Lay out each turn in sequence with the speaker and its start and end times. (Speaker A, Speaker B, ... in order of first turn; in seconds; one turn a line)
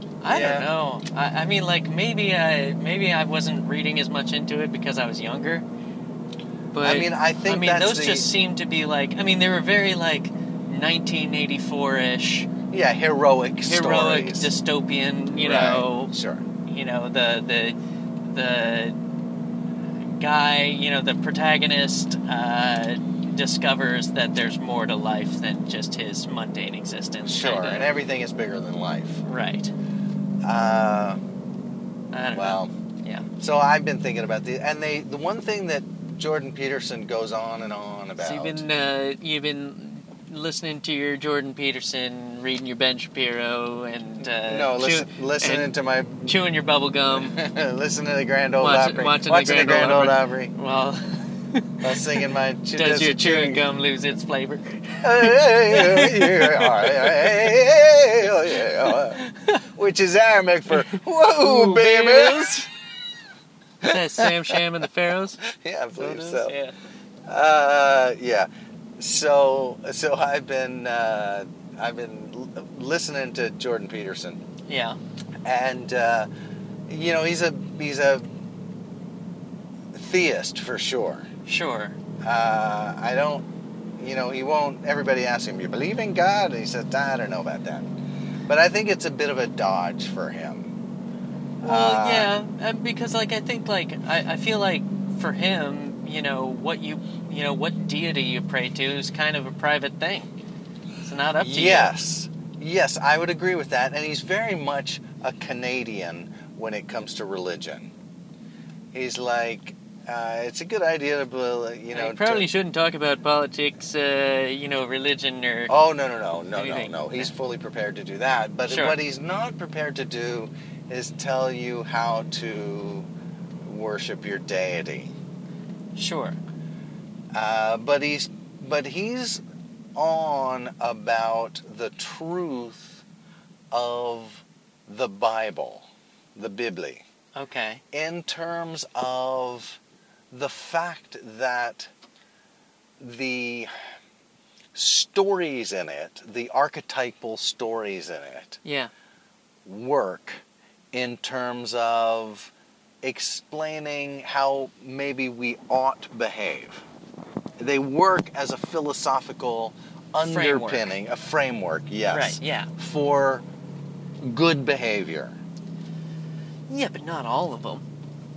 Speaker A: 0.2-5.7
Speaker B: 0.3-0.7
Speaker A: 6.7-12.5
Speaker B: 6.8-8.3
Speaker B: 12.7-14.5
Speaker A: 13.7-16.1
Speaker B: 15.4-16.4
Speaker A: 16.6-19.0
Speaker A: 20.2-27.9
Speaker B: 27.2-29.2
Speaker A: 29.2-29.7
Speaker B: 30.4-31.2
Speaker A: 32.1-33.3
Speaker B: 32.3-32.7
Speaker B: 33.4-38.6
Speaker A: 38.2-45.7
Speaker B: 44.2-46.4
Speaker A: 46.2-47.4
Speaker B: 47.2-50.5
Speaker A: 48.6-52.2
Speaker B: 51.8-53.6
Speaker A: 52.8-57.5
Speaker B: 55.0-62.7
Speaker A: 58.6-59.6
Speaker A: 60.7-62.7
Speaker B: 63.8-64.6
Speaker A: 63.9-65.4
Speaker B: 65.4-66.6
Speaker A: 66.0-66.7
Speaker B: 67.3-74.4
Speaker A: 74.7-75.0
Speaker B: 75.5-76.3
Speaker B: 76.9-78.3
Speaker B: 79.9-81.3
Speaker A: 81.5-82.0
Speaker B: 82.2-83.5
Speaker B: 84.0-87.9
Speaker B: 88.5-90.8
Speaker B: 91.6-92.3
Speaker A: 91.6-100.3
Speaker A: 101.0-101.9
Speaker B: 101.4-107.9
Speaker B: 108.9-112.5
Speaker A: 111.9-115.7
Speaker B: 115.7-123.1
Speaker A: 116.5-117.3
Speaker A: 118.7-119.0
Speaker B: 123.6-125.1
Speaker A: 126.0-126.4
Speaker B: 127.3-129.4
Speaker B: 130.0-133.0
Speaker B: 133.7-137.1
Speaker A: 137.3-137.8
Speaker B: 137.9-139.8
Speaker B: 140.3-141.9
Speaker B: 143.0-143.7
Speaker B: 144.7-148.6
Speaker A: 148.6-148.9
Speaker B: 149.7-156.8
Speaker B: 157.6-163.4
Speaker A: 160.2-160.9
Speaker A: 162.1-162.7
Speaker B: 164.2-165.4
Speaker A: 166.7-167.8